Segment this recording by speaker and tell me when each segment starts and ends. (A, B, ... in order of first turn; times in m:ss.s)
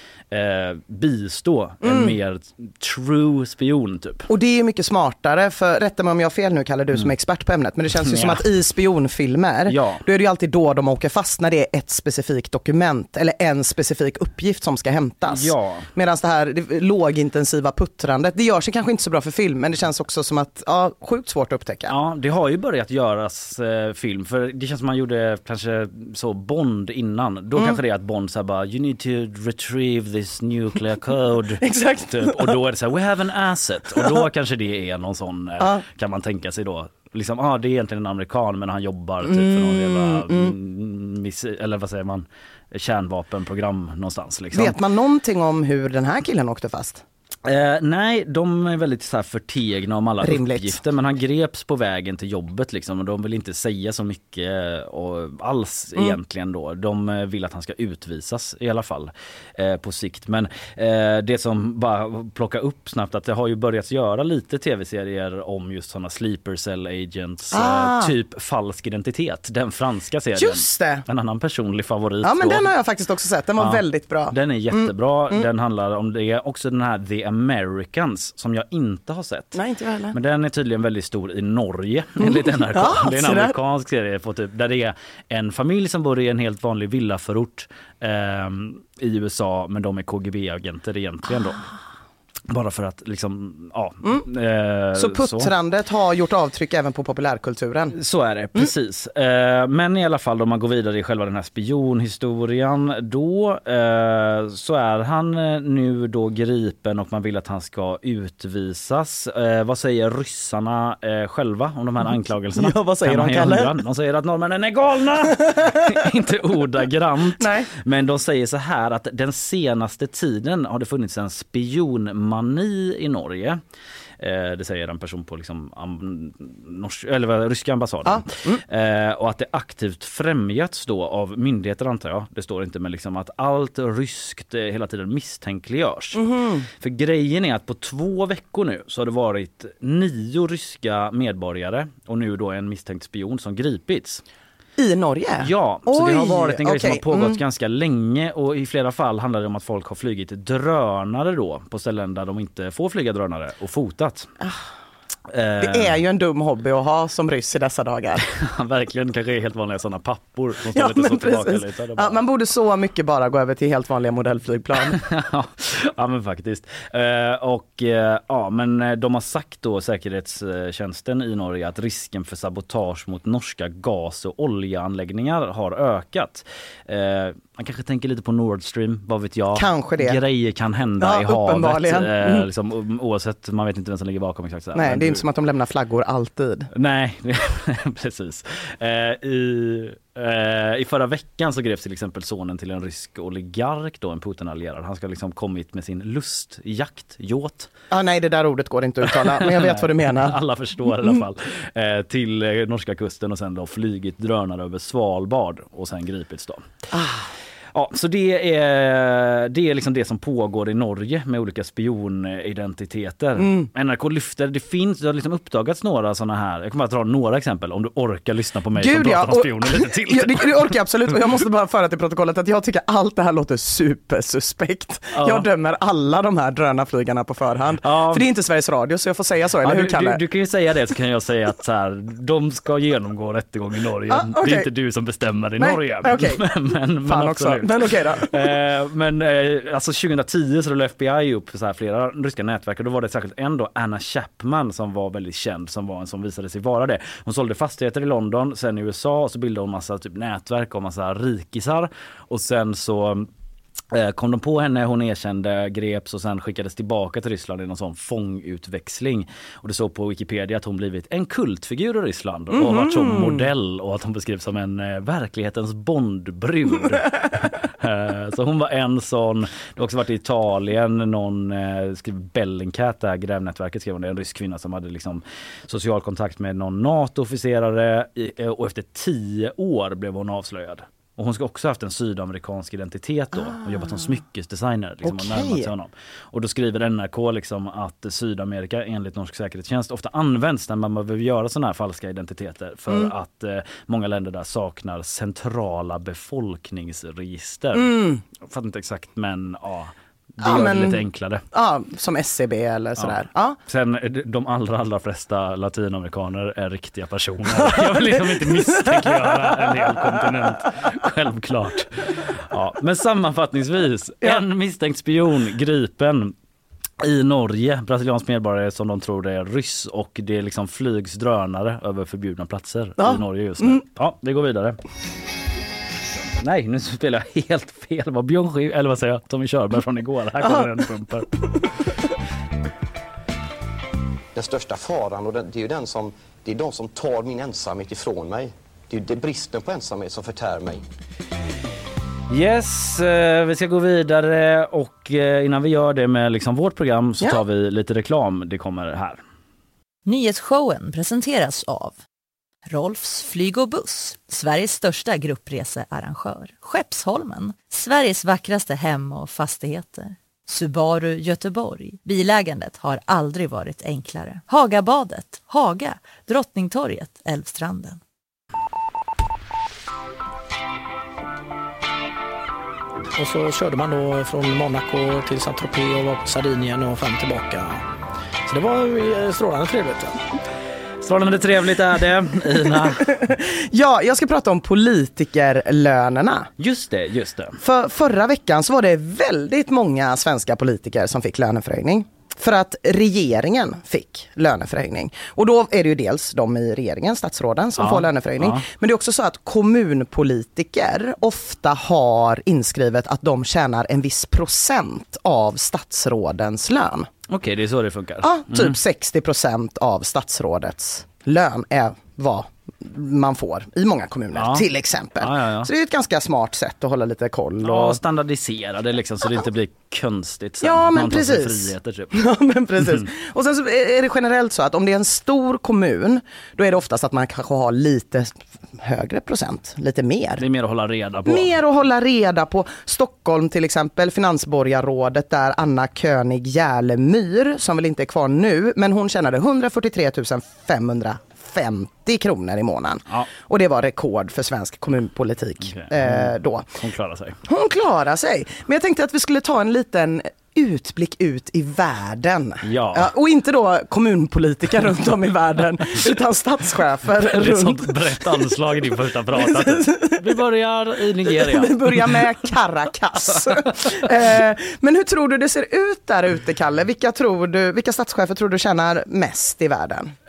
0:00.3-0:04.3 A
0:01.8-0:02.2 B
0:04.3-0:21.9 B
0:08.0-0:08.4 A
0:09.7-0:10.0 A
0:15.3-0:15.9 A
0:21.9-0:44.8 A
0:31.6-0:32.6 B
0:34.0-0:34.2 B
0:35.6-0:35.8 B
0:39.2-0:40.5 B
0:44.5-0:47.0 B
0:47.4-1:12.7 A
0:50.2-0:50.8 B
1:07.5-1:08.1 B
1:10.4-1:11.0 B
1:12.2-1:15.5 B
1:13.6-1:19.6 A
1:19.5-1:20.2 B
1:20.1-1:31.6 A
1:22.2-1:23.6 B
1:32.5-1:35.5 A
1:35.0-1:38.0 B
1:38.0-2:03.6 A
1:52.0-1:53.7 B
1:57.4-1:57.7 B
2:04.2-2:16.2 A
2:08.0-2:08.6 B
2:16.2-2:16.7 B
2:16.8-2:24.2 A
2:24.8-2:27.4 B
2:25.4-2:34.3 A
2:35.3-2:36.0 A
2:35.6-2:38.3 B
2:38.3-2:42.2 A
2:40.7-2:45.0 B
2:44.9-3:05.2 A
2:59.5-3:00.2 B
3:01.0-3:02.5 B
3:04.7-3:06.7 B
3:06.7-3:17.7 A
3:17.9-3:20.4 B
3:19.4-3:26.7 A
3:26.9-3:27.3 B
3:27.7-3:40.7 A
3:33.4-3:33.7 B
3:38.8-3:50.2 B
3:45.1-3:45.4 A
3:47.8-3:48.3 A
3:49.6-4:13.3 A
3:54.1-3:54.7 B
3:55.6-3:56.4 B
3:57.0-3:58.5 B
4:13.9-5:01.4 A
4:22.5-4:23.5 B
4:43.4-4:44.1 B
4:45.0-4:45.7 B
4:52.9-4:53.1 B
4:57.8-4:58.2 B
5:00.4-5:03.6 B
5:03.0-5:16.4 A
5:07.6-5:09.9 B
5:17.0-5:24.8 A
5:23.0-5:23.8 B
5:26.4-5:31.3 A
5:30.4-5:30.7 B
5:34.4-5:40.8 C
5:42.3-5:49.2 A
5:50.1-5:52.0 D
5:52.7-6:08.0 D
6:13.2-6:17.8 E
6:18.5-6:20.2 E
6:21.0-6:23.2 A
6:23.1-6:26.5 B
6:26.6-6:27.6 A
6:27.6-6:47.1 B
6:37.8-6:38.6 A
6:47.3-6:48.8 A
6:48.2-6:58.0 B
6:54.4-6:54.7 A
6:55.2-6:55.7 A
6:57.6-7:02.2 A
7:00.6-7:10.4 B
7:10.4-7:11.5 A
7:11.3-7:26.8 B
7:25.7-7:27.4 A
7:27.5-7:38.2 B
7:32.6-7:33.1 A
7:37.2-7:42.2 A
7:39.3-7:40.2 B
7:41.2-7:50.1 B